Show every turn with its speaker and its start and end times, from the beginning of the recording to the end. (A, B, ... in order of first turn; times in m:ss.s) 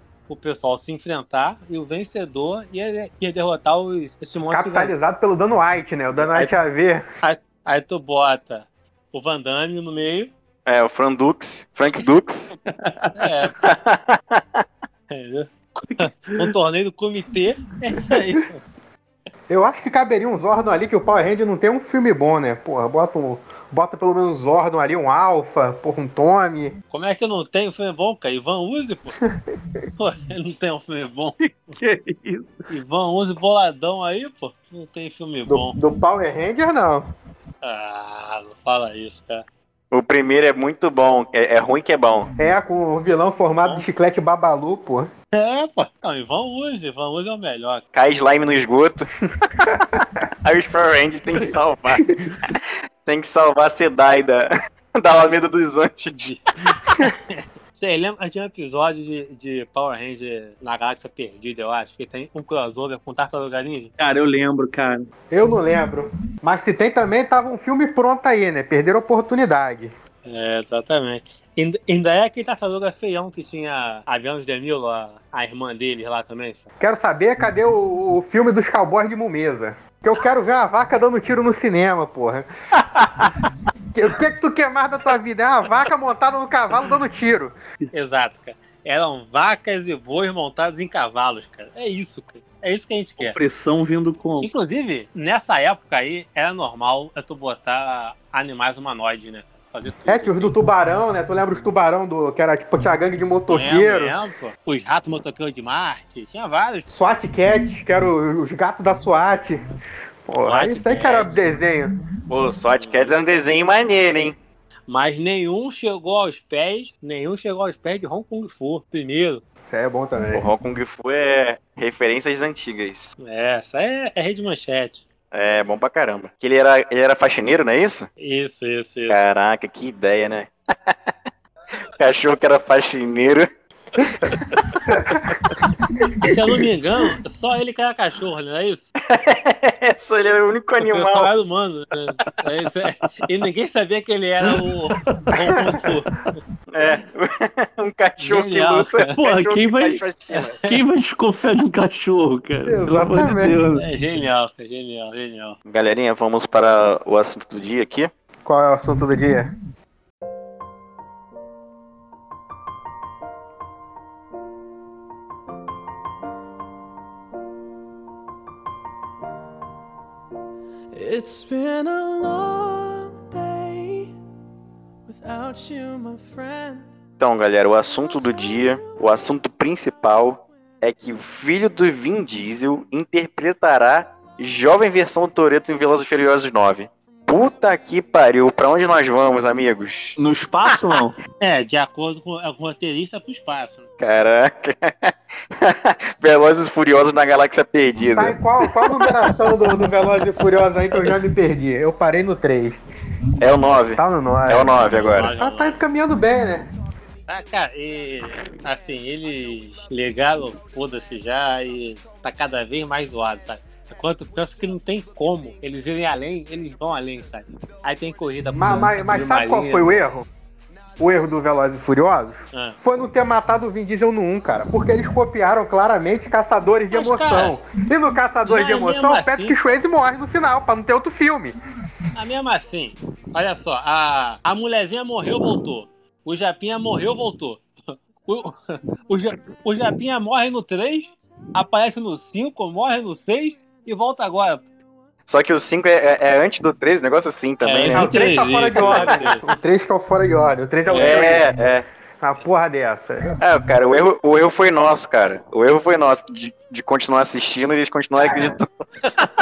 0:00.3-0:04.9 A
0:04.5-0:07.0 B
0:06.2-0:06.5 A
0:07.2-0:10.3 A
0:10.6-0:12.6 C
0:12.8-0:13.2 D
0:13.2-0:13.5 A
0:13.6-0:14.6 C
0:15.1-0:18.6 A
0:19.5-0:26.8 B
0:26.9-0:29.2 A
0:30.0-0:31.4 A
0:31.4-0:32.7 D
0:32.7-0:35.8 A
0:35.4-0:37.1 B
0:37.6-0:39.4 A
0:39.9-0:42.3 C
0:42.4-0:45.1 B
0:45.3-0:47.8 A
0:47.9-0:49.1 C
0:49.6-0:50.1 B
0:50.4-0:56.3 C
0:57.0-1:03.9 A
1:04.0-1:05.1 D
1:05.3-1:09.9 B
1:10.2-1:16.7 A
1:16.8-1:22.5 B
1:23.9-1:27.6 B
1:27.9-1:33.4 A
1:33.2-1:34.5 D
1:34.4-1:40.6 A
1:40.1-1:44.1 B
1:43.5-1:46.9 A
1:46.9-1:49.6 B
1:50.3-1:51.9 B
1:50.4-1:51.4 A
1:52.3-1:54.4 C
1:52.8-1:53.1 A
1:54.9-1:59.4 A
1:59.6-2:00.5 B
2:00.3-2:03.2 C
2:03.2-2:05.0 A
2:05.3-2:08.1 C
2:08.2-2:09.2 A
2:09.1-2:11.1 C
2:12.0-2:13.5 C
2:14.0-2:14.4 C
2:14.9-2:15.3 B
2:16.0-2:16.3 B
2:16.2-2:18.9 A
2:19.0-2:21.3 C
2:20.8-2:26.3 A
2:25.0-2:25.9 D
2:26.7-2:30.6 C
2:28.2-2:29.1 A
2:29.1-2:30.0 D
2:30.3-2:30.7 A
2:30.6-2:33.8 D
2:32.6-2:33.6 B
2:33.8-2:35.6 A
2:35.6-2:38.1 C
2:38.4-2:39.5 B
2:50.9-2:54.2 E
2:55.0-2:56.9 E
2:57.2-3:10.2 C
2:58.1-2:59.2 E
3:10.2-3:11.2 D
3:11.4-3:13.9 A
3:14.0-3:19.3 C
3:18.1-3:22.8 B
3:23.4-3:25.3 C
3:24.0-3:26.7 B
3:24.8-3:25.8 A
3:27.3-3:40.0 A
3:38.5-3:40.3 B
3:41.0-3:51.6 B
3:46.9-3:47.6 A
3:48.4-3:49.6 A
3:52.1-4:04.7 A
4:05.3-4:08.1 C
4:07.6-4:09.5 A
4:07.9-4:11.4 B
4:08.7-4:09.1 C
4:10.9-4:11.3 A
4:10.9-4:11.8 C
4:12.2-4:13.4 B
4:13.4-4:18.7 C